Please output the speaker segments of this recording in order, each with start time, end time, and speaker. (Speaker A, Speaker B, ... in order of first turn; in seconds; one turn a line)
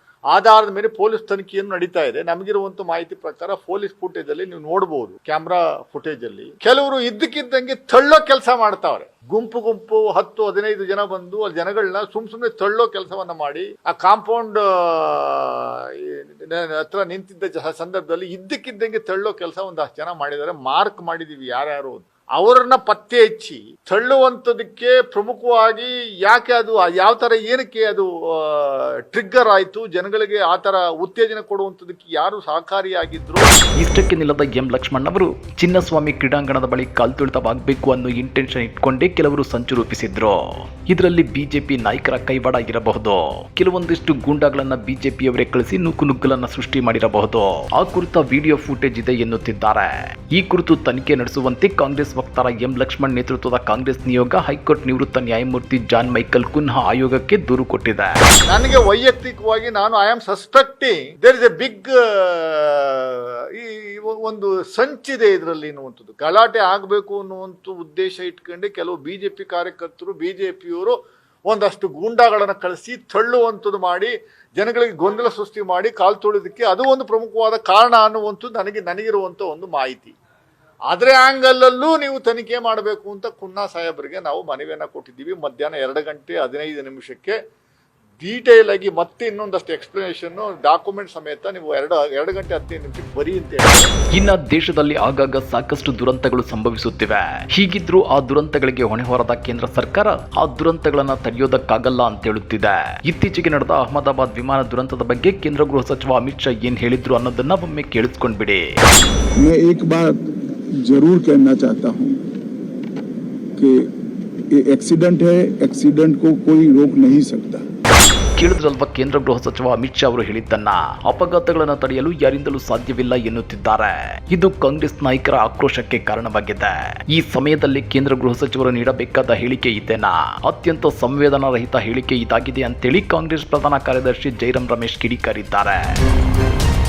Speaker A: 0.3-33.5
Speaker B: 33.8-58.1
Speaker A: 58.5-71.0
Speaker A: 71.5-80.1
Speaker A: 80.9-87.3
Speaker A: 88.2-93.9
Speaker B: 94.1-108.7
Speaker C: 109.4-110.2
Speaker C: 110.8-112.2
Speaker C: 113.6-113.9
Speaker C: 114.5-117.6
Speaker B: 118.4-135.8